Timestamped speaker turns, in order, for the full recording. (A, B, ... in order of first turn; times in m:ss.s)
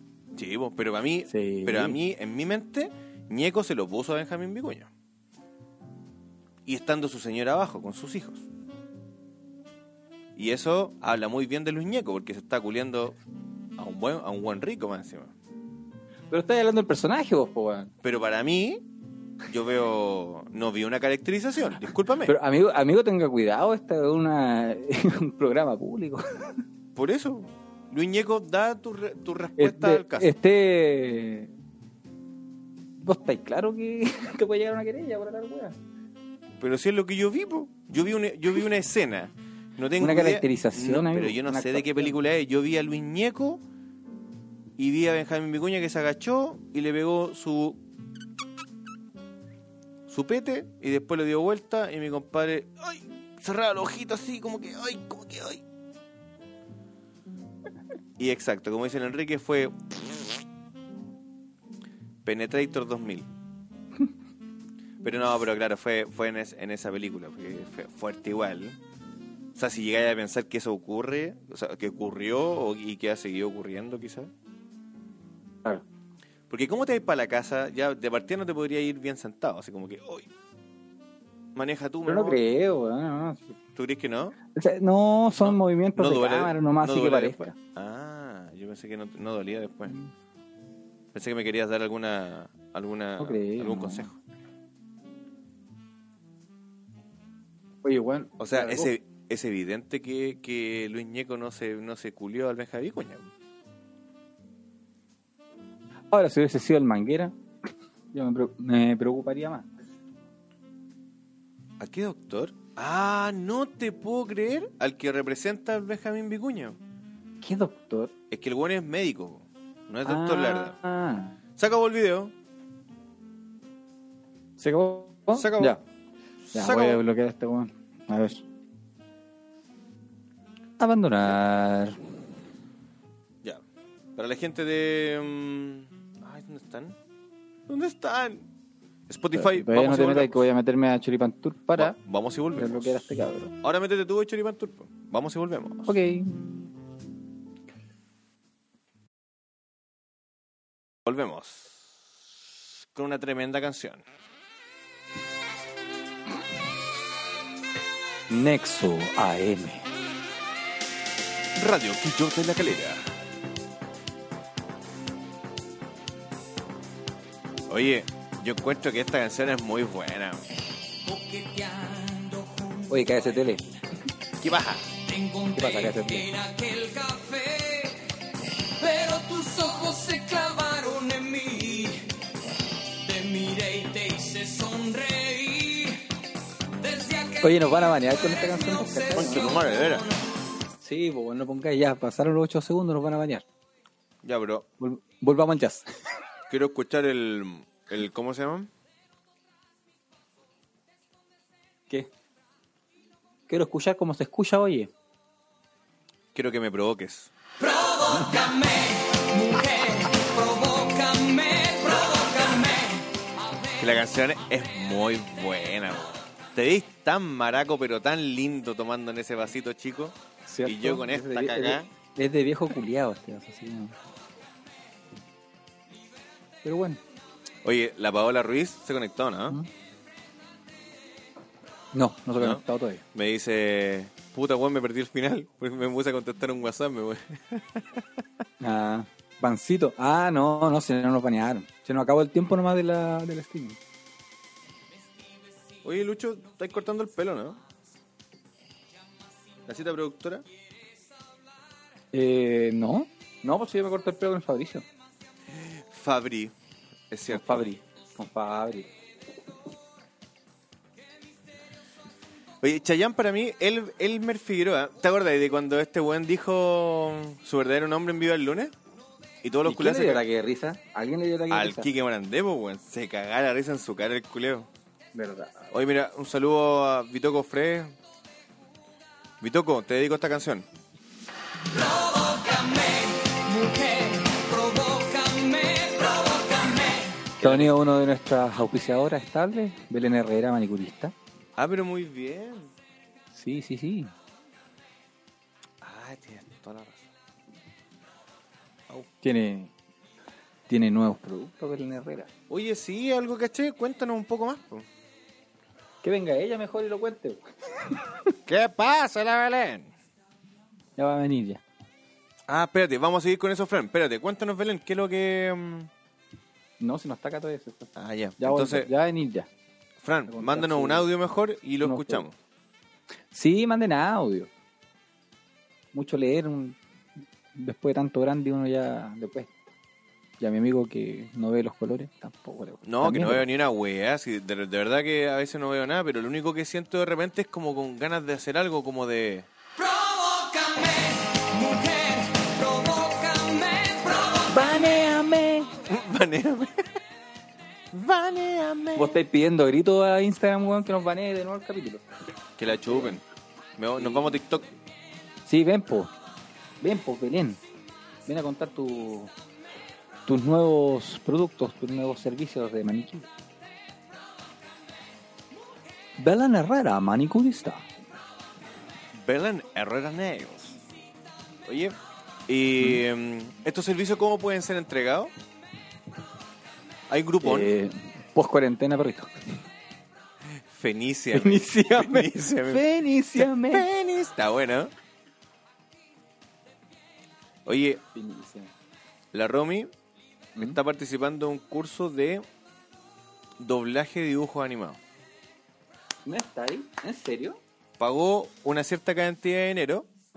0:00.4-0:04.9 A
0:01.3-0:02.0 B
0:06.7-0:08.5 A
0:10.4-0:13.2 A
0:13.8-0:15.3 A
0:16.3-0:17.9 B
0:18.0-0:18.8 A
0:19.4-0:22.4 A
0:22.3-0:26.6 B
0:27.0-0:30.3 A
0:29.6-0:31.5 B
0:33.0-0:35.8 B
0:36.6-0:43.6 A
0:40.0-0:42.2 B
0:44.8-0:47.8 A
0:50.1-0:55.6 A
0:58.2-1:00.4 A
1:02.2-1:03.3 A
1:05.0-1:08.8 A
1:09.6-1:14.3 A
1:16.5-1:20.3 A
1:21.6-1:22.4 A
1:22.0-1:23.6 B
1:23.8-1:24.4 A
1:24.5-1:27.6 B
1:25.4-1:30.0 A
1:31.1-1:34.2 A
1:33.2-1:34.1 B
1:37.8-1:38.9 B
1:38.4-1:43.3 A
1:46.1-1:47.3 B
1:48.1-1:49.7 B
1:51.8-1:56.8 A
1:57.4-1:58.1 B
1:58.3-2:00.8 A
2:00.0-2:01.4 B
2:01.6-2:02.3 A
2:04.6-2:05.8 B
2:05.3-2:05.8 A
2:06.4-2:07.0 A
2:06.5-2:08.4 B
2:10.8-2:12.0 B
2:14.2-2:17.0 A
2:17.7-2:18.5 A
2:19.1-2:20.4 A
2:19.3-2:22.0 B
2:21.8-2:23.0 A
2:22.6-2:23.5 B
2:23.6-2:26.0 A
2:25.9-2:26.5 B
2:31.1-2:31.8 A
2:32.9-2:34.0 A
2:38.3-2:39.9 B
2:41.6-2:43.1 A
2:47.7-2:50.4 A
2:51.0-2:53.4 C
2:52.9-2:53.6 B
2:54.4-2:54.9 A
2:55.0-2:58.2 C
2:55.6-2:56.3 B
2:58.8-3:02.1 C
3:03.0-3:06.1 C
3:06.8-3:10.2 C
3:07.4-3:09.6 B
3:09.1-3:10.0 A
3:10.8-3:13.4 B
3:14.2-3:14.7 A
3:14.8-3:15.9 B
3:16.5-3:18.7 A
3:23.5-3:24.9 B
3:26.3-3:27.3 A
3:27.6-3:34.0 C
3:33.8-3:41.9 A
3:40.5-3:44.0 B
3:46.6-3:47.0 B
3:47.6-3:49.6 A
3:51.9-3:53.0 B
3:53.1-3:58.2 A
3:58.6-4:03.8 B
4:05.8-4:07.6 A
4:09.7-4:10.5 A
4:12.1-4:14.8 B
4:15.5-4:16.5 A
4:17.1-4:17.7 A
4:17.3-4:18.9 B
4:22.6-4:28.7 A
4:29.4-4:30.2 A
4:29.6-4:31.9 B
4:31.5-4:34.7 A
4:35.1-4:35.7 B
4:35.7-4:38.0 A
4:39.4-4:40.7 A
4:41.7-4:47.3 C
4:47.4-4:47.7 A
4:47.4-4:51.1 B
4:51.6-4:52.7 A
4:53.3-4:54.1 B
4:55.8-4:57.1 A
4:59.2-4:59.7 B
5:00.7-5:02.3 B
5:02.5-5:04.9 A
5:06.0-5:08.3 B
5:08.5-5:09.9 A
5:11.0-5:11.6 B
5:12.5-5:15.9 A
5:16.8-5:19.5 B
5:18.0-5:18.9 A
5:20.0-5:22.4 A
5:20.3-5:21.1 B
5:21.8-5:22.2 B
5:23.3-5:24.5 B
5:25.9-5:26.8 B
5:27.6-5:29.5 B
5:30.4-5:33.5 B
5:32.8-5:39.5 A
5:39.8-5:44.9 C
5:44.5-5:45.7 B
5:45.9-5:46.8 A
5:47.9-5:49.2 A
5:49.0-5:52.1 B
5:52.6-5:53.2 A
5:52.9-5:53.2 B
5:53.8-5:54.7 A
5:54.0-5:54.5 B
5:55.4-5:56.1 B
5:56.8-5:57.6 B
5:58.3-5:59.3 B
6:00.3-6:03.3 B
6:06.2-6:07.9 B
6:09.2-6:10.8 A
6:11.6-6:15.3 A
6:17.1-6:17.7 A
6:17.4-6:19.3 B
6:20.7-6:22.8 A
6:21.3-6:23.9 B
6:23.4-6:24.9 A
6:27.6-6:28.0 A
6:28.1-6:28.7 B
6:29.3-6:29.9 A
6:30.6-6:32.4 A
6:33.6-6:35.0 A
6:36.2-6:37.6 B
6:38.0-6:40.1 A